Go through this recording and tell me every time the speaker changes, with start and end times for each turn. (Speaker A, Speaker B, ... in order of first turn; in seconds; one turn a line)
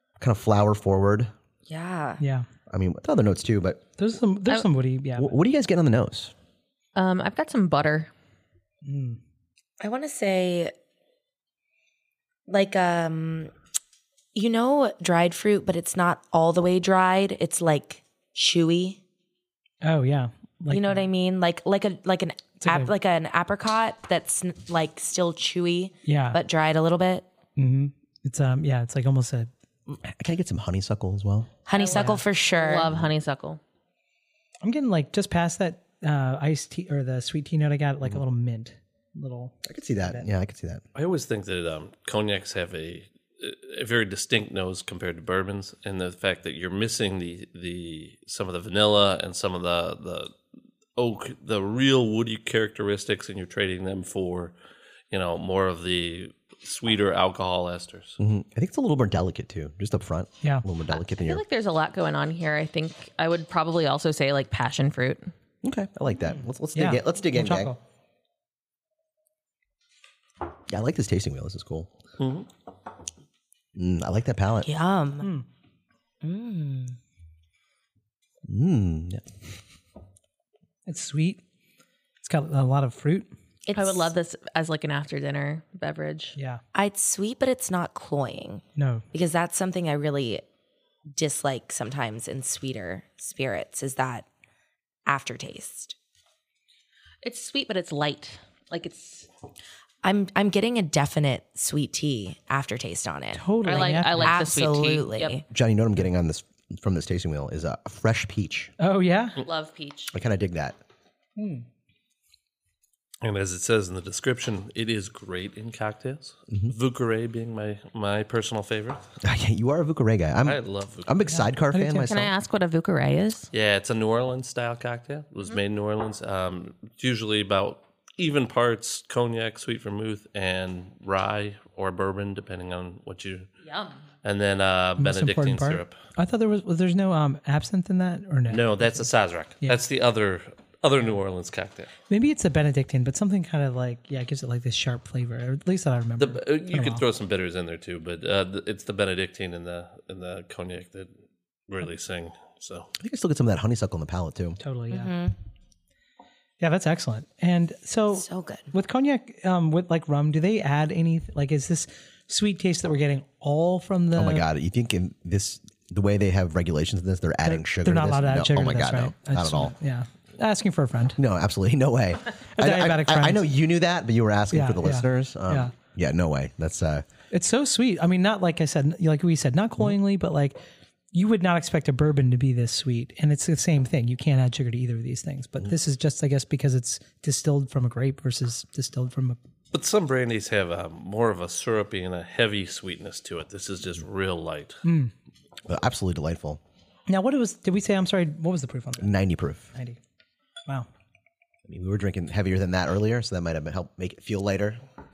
Speaker A: 0.2-1.3
Speaker B: 1.7-2.2
Speaker C: 2.2-2.5
Speaker A: 2.7-3.8
Speaker C: 4.0-5.3
Speaker A: 5.2-6.3
Speaker D: 6.9-8.1
Speaker C: 8.8-9.2
Speaker B: 9.8-10.7
Speaker B: 12.5-13.5
Speaker B: 14.3-19.0
Speaker C: 19.8-21.0
Speaker B: 20.7-27.2
Speaker C: 22.6-22.9
Speaker C: 26.0-26.4
Speaker C: 27.6-29.5
Speaker A: 30.0-31.5
Speaker B: 31.6-32.9
Speaker D: 31.7-33.6
Speaker C: 31.9-32.2
Speaker C: 34.6-40.2
Speaker A: 39.6-40.8
Speaker E: 40.9-50.3
Speaker E: 51.0-54.5
Speaker E: 55.1-58.2
Speaker A: 58.2-61.4
Speaker D: 61.1-65.3
Speaker A: 65.6-67.7
Speaker C: 66.7-67.8
Speaker A: 70.7-71.9
Speaker E: 72.2-72.5
Speaker A: 73.7-74.7
Speaker B: 74.6-75.3
Speaker C: 75.2-75.5
Speaker B: 76.2-77.0
Speaker A: 78.5-79.3
Speaker C: 80.8-81.4
Speaker C: 82.2-83.3
Speaker B: 83.7-84.1
Speaker D: 83.7-86.3
Speaker C: 86.3-86.6
Speaker B: 86.7-90.4
Speaker C: 88.8-89.0
Speaker B: 91.1-94.2
Speaker B: 95.0-95.9
Speaker D: 97.2-99.3
Speaker B: 100.0-103.5
Speaker C: 103.3-104.4
Speaker D: 103.6-105.4
Speaker B: 104.2-105.4
Speaker A: 105.5-108.7
Speaker C: 108.8-109.4
Speaker D: 109.4-110.1
Speaker A: 110.1-110.8
Speaker C: 111.4-111.7
Speaker E: 113.2-119.0
Speaker A: 119.2-122.3
Speaker E: 120.4-121.1
Speaker C: 121.3-122.2
Speaker D: 122.0-123.5
Speaker E: 123.5-133.5
Speaker D: 133.7-133.9
Speaker E: 134.2-135.9
Speaker C: 135.0-139.1
Speaker E: 138.5-141.9
Speaker C: 142.1-147.0
Speaker E: 146.2-151.1
Speaker E: 151.7-152.9
Speaker A: 153.0-154.6
Speaker C: 154.6-155.1
Speaker B: 154.9-155.3
Speaker C: 156.6-164.4
Speaker B: 158.1-158.7
Speaker A: 164.1-169.7
Speaker C: 167.4-171.2
Speaker A: 171.2-177.0
Speaker C: 172.6-173.4
Speaker C: 174.5-175.7
Speaker C: 177.3-180.6
Speaker C: 181.1-189.4
Speaker E: 189.7-194.8
Speaker C: 194.8-195.1
Speaker A: 195.7-196.6
Speaker C: 197.1-199.1
Speaker A: 199.0-199.7
Speaker C: 199.7-200.0
Speaker A: 201.7-204.8